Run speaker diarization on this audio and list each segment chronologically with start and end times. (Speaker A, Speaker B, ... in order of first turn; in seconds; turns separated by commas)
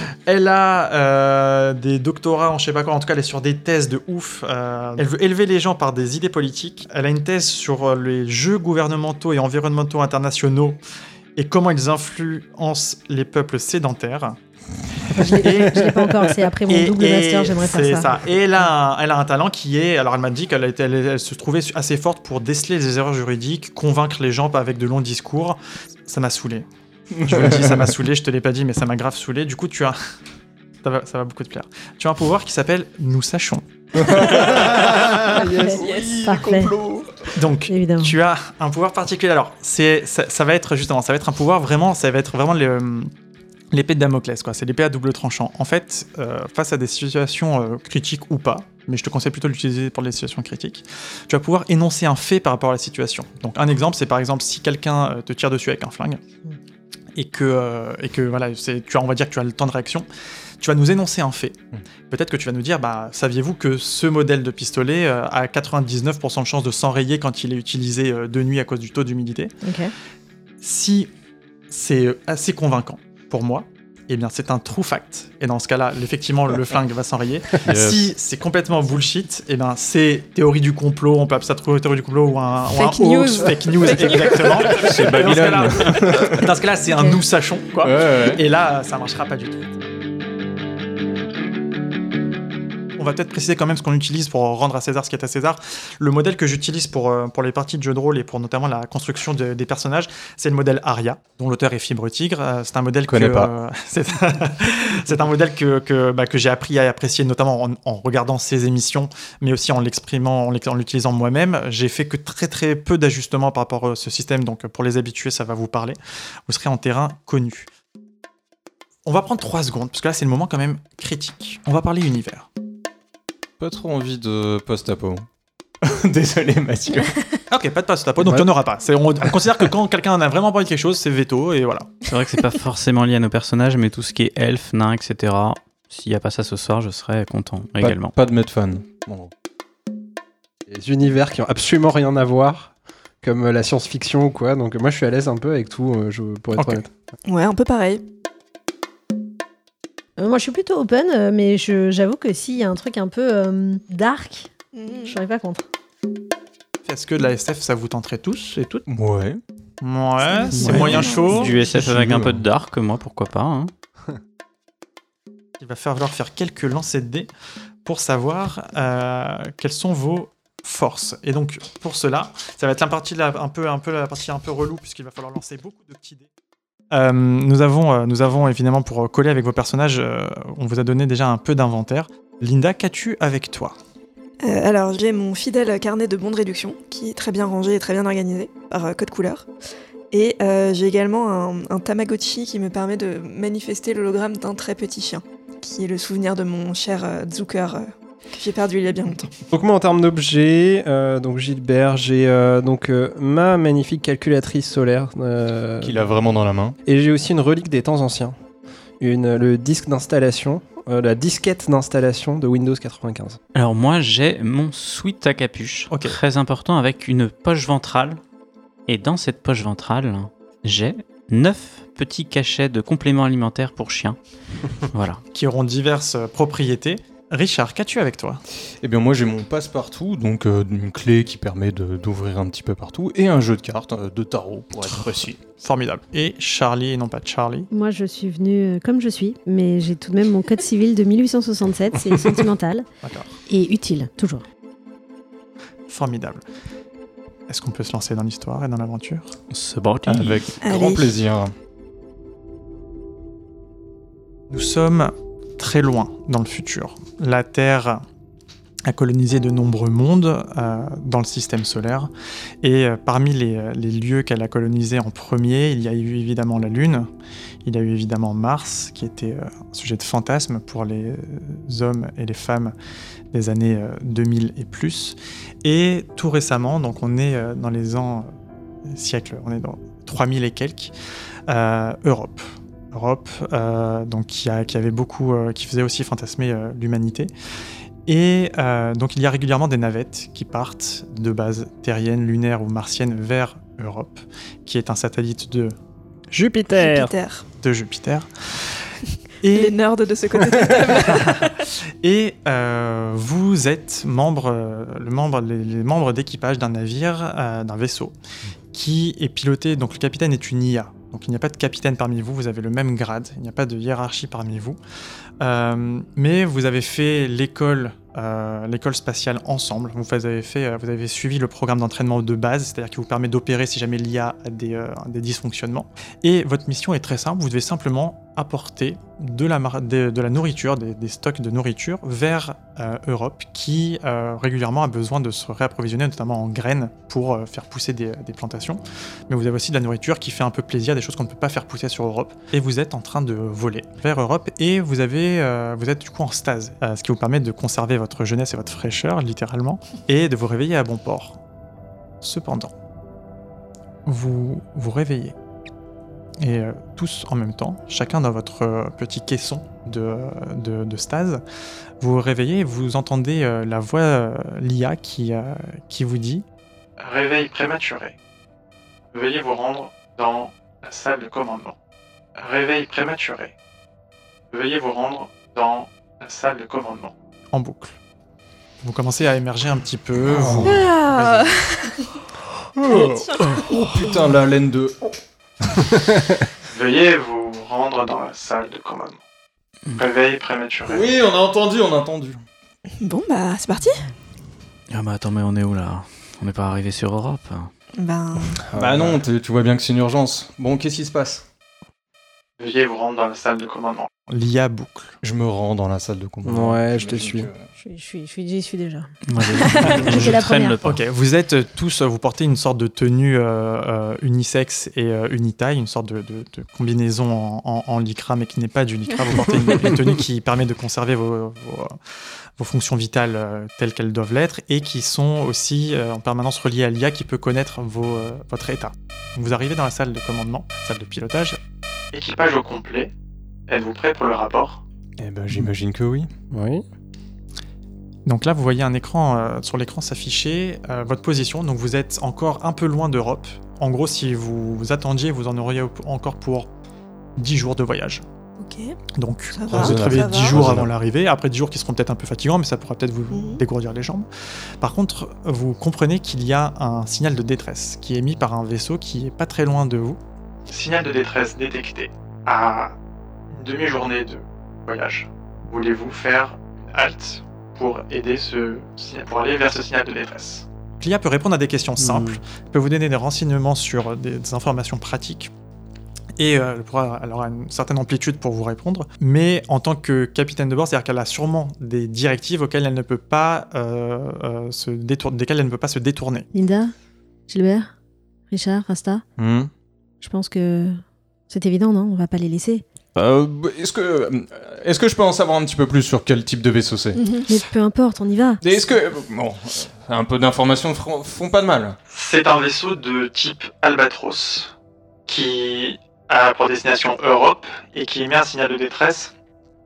Speaker A: 0.2-10.8, Speaker A: 11.4-14.4, Speaker B: 15.1-18.2, Speaker A: 15.2-26.7, Speaker C: 27.2-27.9, Speaker A: 27.2-30.0, Speaker A: 30.8-34.6, Speaker C: 34.0-37.4, Speaker B: 35.3-36.7, Speaker A: 37.4-43.1, Speaker B: 37.7-38.1, Speaker A: 43.7-56.2, Speaker A: 57.1-60.1, Speaker A: 60.6-61.6, Speaker A: 62.1-69.5, Speaker B: 69.6-69.9, Speaker A: 70.6-71.1, Speaker A: 71.7-89.8, Speaker C: 77.6-78.0, Speaker D: 82.7-84.9, Speaker C: 84.7-86.5, Speaker C: 87.8-88.4, Speaker A: 93.0-117.7, Speaker C: 103.1-103.5, Speaker A: 119.0-122.5, Speaker C: 123.6-125.2, Speaker C: 125.8-127.2, Speaker A: 127.5-132.0, Speaker E: 132.1-138.1, Speaker C: 137.8-139.3, Speaker F: 140.7-146.9, Speaker A: 146.6-146.8, Speaker D: 147.2-148.0, Speaker B: 150.2-155.6, Speaker D: 154.7-155.2, Speaker A: 156.8-158.8, Speaker C: 158.9-159.4, Speaker A: 159.8-161.5, Speaker D: 160.3-161.6, Speaker E: 160.6-163.7, Speaker C: 161.0-162.4, Speaker A: 165.6-167.3, Speaker A: 167.8-176.3, Speaker A: 176.9-183.8, Speaker D: 184.4-189.5, Speaker D: 190.1-199.3, Speaker F: 199.5-206.0, Speaker C: 205.8-206.8, Speaker F: 206.8-208.4, Speaker F: 209.0-213.4, Speaker E: 213.5-218.2, Speaker A: 215.9-216.2, Speaker E: 218.9-224.2, Speaker E: 224.9-225.2, Speaker A: 225.3-228.4, Speaker C: 228.8-235.4, Speaker A: 235.5-237.7, Speaker B: 237.7-242.9, Speaker B: 243.5-244.4, Speaker A: 245.9-246.4, Speaker A: 247.5-249.3, Speaker E: 249.5-250.4, Speaker C: 250.1-251.5, Speaker D: 250.6-251.1, Speaker A: 254.5-258.0, Speaker A: 258.9-262.1, Speaker A: 262.6-267.1, Speaker A: 267.6-272.7, Speaker A: 273.3-278.3, Speaker A: 278.9-280.9, Speaker A: 281.5-287.3, Speaker A: 288.1-295.8, Speaker F: 296.3-297.1, Speaker D: 296.7-297.5, Speaker A: 297.6-298.8, Speaker A: 299.4-299.8, Speaker D: 299.5-301.5, Speaker A: 301.0-308.1, Speaker A: 308.7-314.8, Speaker A: 315.4-351.4, Speaker A: 352.2-352.7, Speaker A: 354.1-355.4, Speaker A: 356.4-361.4, Speaker A: 362.0-366.4, Speaker A: 367.0-368.1, Speaker A: 369.1-371.8, Speaker A: 372.4-373.5, Speaker A: 374.5-378.0, Speaker A: 378.8-381.6, Speaker C: 380.3-380.8, Speaker D: 380.6-382.1, Speaker C: 382.8-385.1, Speaker D: 382.9-383.7, Speaker A: 386.7-389.2, Speaker A: 389.9-391.1, Speaker C: 390.9-392.4, Speaker D: 393.0-394.1, Speaker E: 394.9-397.7, Speaker D: 398.0-398.6, Speaker F: 398.7-399.2, Speaker C: 398.7-401.4, Speaker A: 402.6-405.2, Speaker C: 405.2-407.7, Speaker F: 406.4-407.5, Speaker B: 407.8-410.9, Speaker E: 409.3-410.9, Speaker A: 410.8-421.9, Speaker A: 422.6-431.6, Speaker A: 432.1-433.1, Speaker A: 433.7-434.8, Speaker C: 435.2-436.3, Speaker F: 436.5-436.9, Speaker A: 438.3-446.7, Speaker A: 447.4-448.2, Speaker D: 448.6-448.9, Speaker A: 449.2-454.3, Speaker D: 449.5-450.7, Speaker C: 449.7-450.9, Speaker D: 453.3-453.6, Speaker A: 454.8-462.9, Speaker A: 463.5-475.5, Speaker F: 472.0-472.4, Speaker A: 476.4-486.5, Speaker B: 486.5-486.9, Speaker B: 487.5-487.9, Speaker B: 488.5-489.2, Speaker C: 489.4-489.7, Speaker B: 490.2-492.8, Speaker C: 493.1-497.2, Speaker D: 497.1-497.5, Speaker B: 497.5-498.7, Speaker C: 498.6-501.9, Speaker A: 502.1-504.7, Speaker A: 505.3-509.3